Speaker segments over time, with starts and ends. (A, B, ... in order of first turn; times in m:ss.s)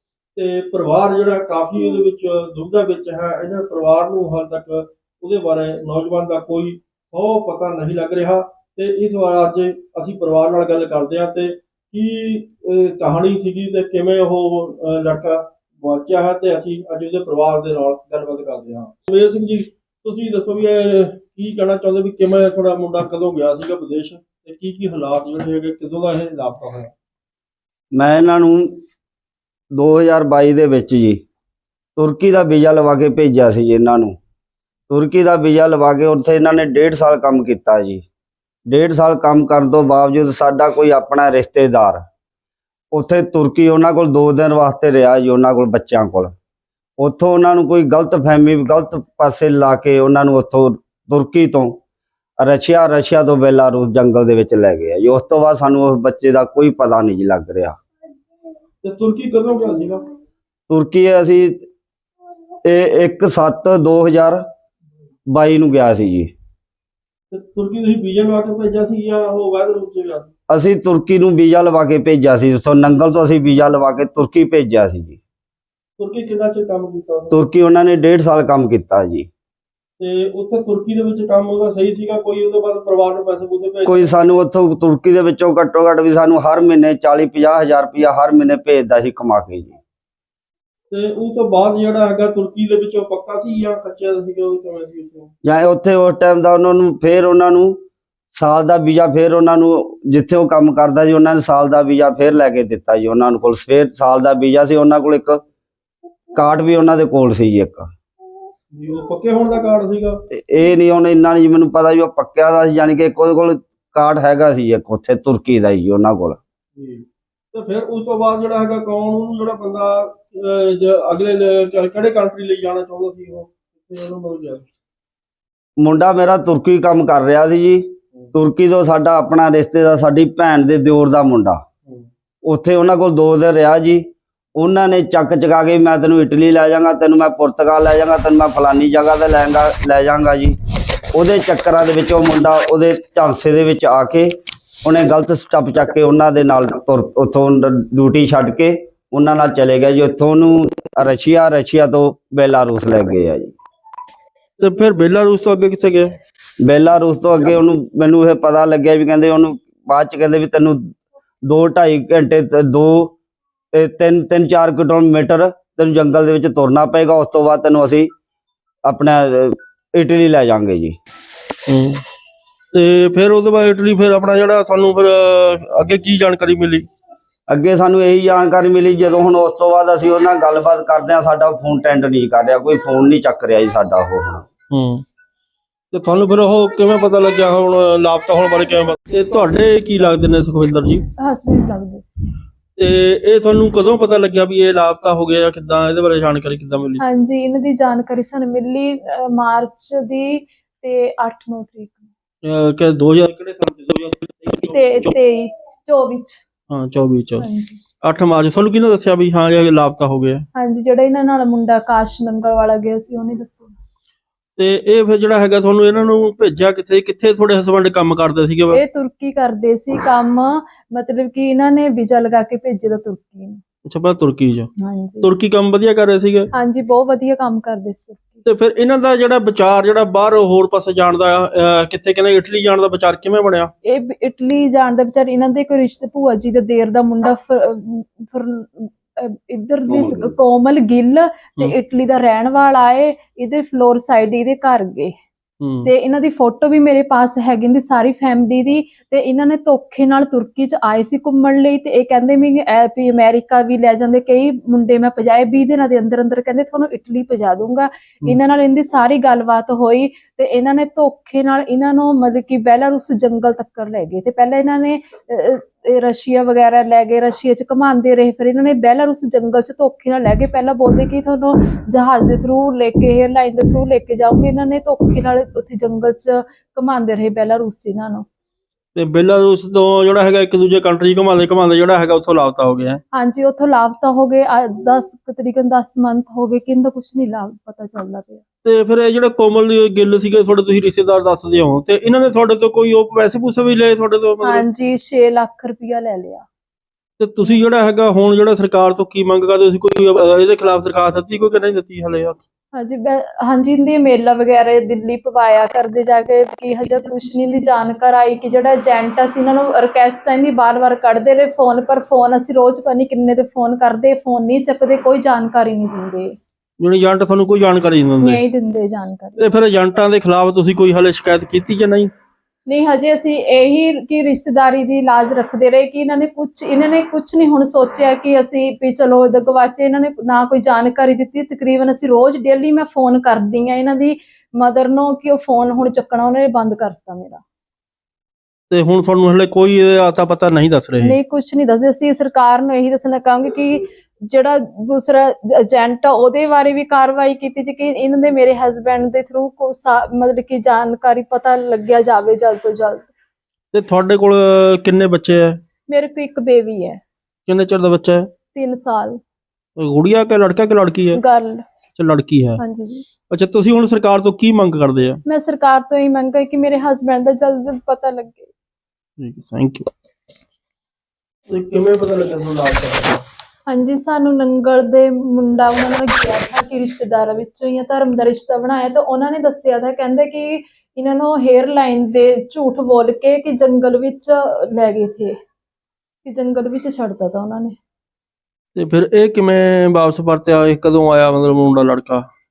0:00.4-0:26.9 A
0:27.9-0:28.8 B
0:29.7-0:31.2 B
0:32.0-0:34.2 B
0:34.9-0:38.0 B
0:38.7-0:42.0 B
0:42.9-0:46.3 B
0:47.0-0:51.8 B
0:52.4-0:57.8 B
0:58.8-1:00.0 A
1:00.7-1:01.6 B
1:02.6-1:04.4 B
1:05.3-1:06.3 B
1:07.3-1:10.3 A
1:10.5-1:15.2 B
1:16.0-1:17.4 A
1:17.3-1:19.3 B
1:20.0-1:24.0 A
1:23.8-1:29.8 B
1:30.9-1:35.3 A
1:35.4-1:37.8 B
1:38.3-1:45.4 B
1:46.3-1:47.9 B
1:48.7-1:50.2 A
1:50.3-1:56.4 B
1:56.8-2:04.6 A
2:05.8-2:11.6 B
2:12.4-2:20.6 B
2:21.1-2:24.3 B
2:24.8-2:33.5 B
2:34.6-2:36.1 A
2:36.6-2:40.8 B
2:41.4-2:43.1 B
2:43.7-2:48.1 B
2:48.8-2:50.9 B
2:51.7-2:52.0 A
2:52.7-2:56.9 A
2:57.5-3:04.4 B
3:04.7-3:05.0 A
3:05.9-3:11.0 A
3:11.2-3:12.0 C
3:12.8-3:17.0 A
3:17.0-3:22.1 C
3:22.4-3:25.1 A
3:24.7-3:26.4 C
3:26.7-3:27.5 A
3:27.4-3:27.8 C
3:28.0-3:30.4 A
3:30.5-3:33.8 C
3:34.6-3:38.8 A
3:38.7-3:43.6 C
3:43.8-3:44.7 A
3:44.8-3:45.3 C
3:45.2-3:46.5 A
3:46.5-3:48.4 C
3:48.4-3:53.7 A
3:53.8-4:05.1 C
3:59.9-4:00.3 B
4:05.6-4:05.9 A
4:05.8-4:38.2 C
4:38.9-4:43.0 A
4:43.1-4:48.4 C
4:48.6-4:54.6 A
4:54.4-4:56.4 C
4:57.2-5:02.4 A
5:02.7-5:16.3 C
5:16.8-5:18.4 A
5:18.2-5:19.4 C
5:19.4-5:22.1 A
5:22.6-5:37.4 C
5:38.7-5:41.2 A
5:41.0-5:53.1 C
5:53.7-5:55.6 A
5:55.9-5:57.0 C
5:57.5-5:58.3 A
5:58.5-5:59.2 C
5:59.8-6:01.2 A
6:01.1-6:01.6 C
6:02.0-6:02.6 A
6:02.6-6:03.0 C
6:03.3-6:05.2 A
6:05.2-6:08.5 C
6:09.2-6:09.9 A
6:11.5-6:13.2 A
6:13.7-6:25.3 C
6:26.2-6:27.8 C
6:28.7-6:32.3 A